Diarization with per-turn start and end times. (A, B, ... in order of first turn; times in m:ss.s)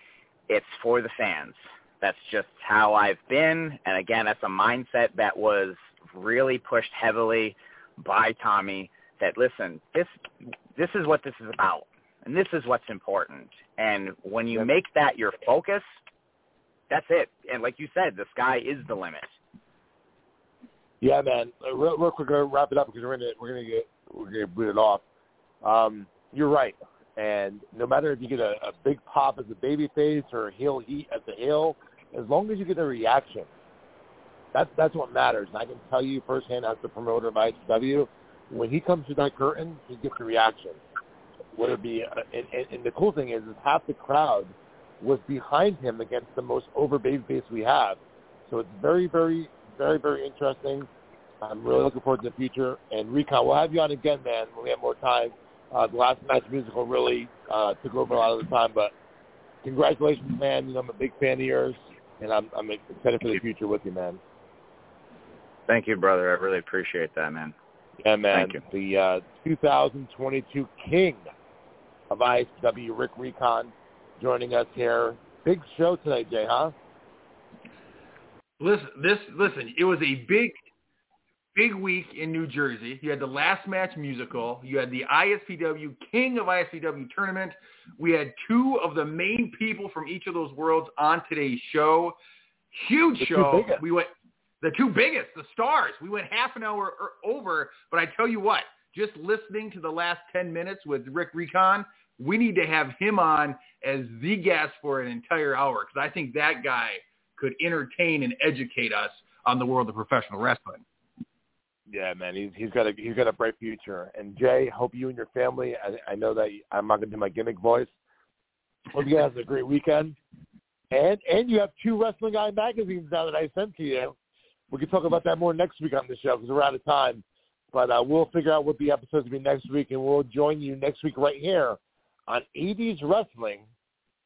0:00.5-0:15.9 A
0:16.9-0:19.4 A
0:21.0-0:25.0 B
0:25.6-0:33.5 B
0:34.5-0:40.8 B
0:41.5-0:50.9 B
0:51.4-0:58.9 B
0:59.6-1:04.2 B
1:05.7-1:07.5 A
1:08.0-1:11.3 B
1:08.3-1:08.6 A
1:12.1-1:16.7 B
1:18.6-1:20.5 C
1:21.6-1:32.2 C
1:32.7-1:34.1 C
1:33.2-1:33.8 B
1:34.6-1:50.8 C
1:51.9-1:57.9 B
1:58.9-2:00.2 B
2:00.9-2:04.2 B
2:04.7-2:13.6 B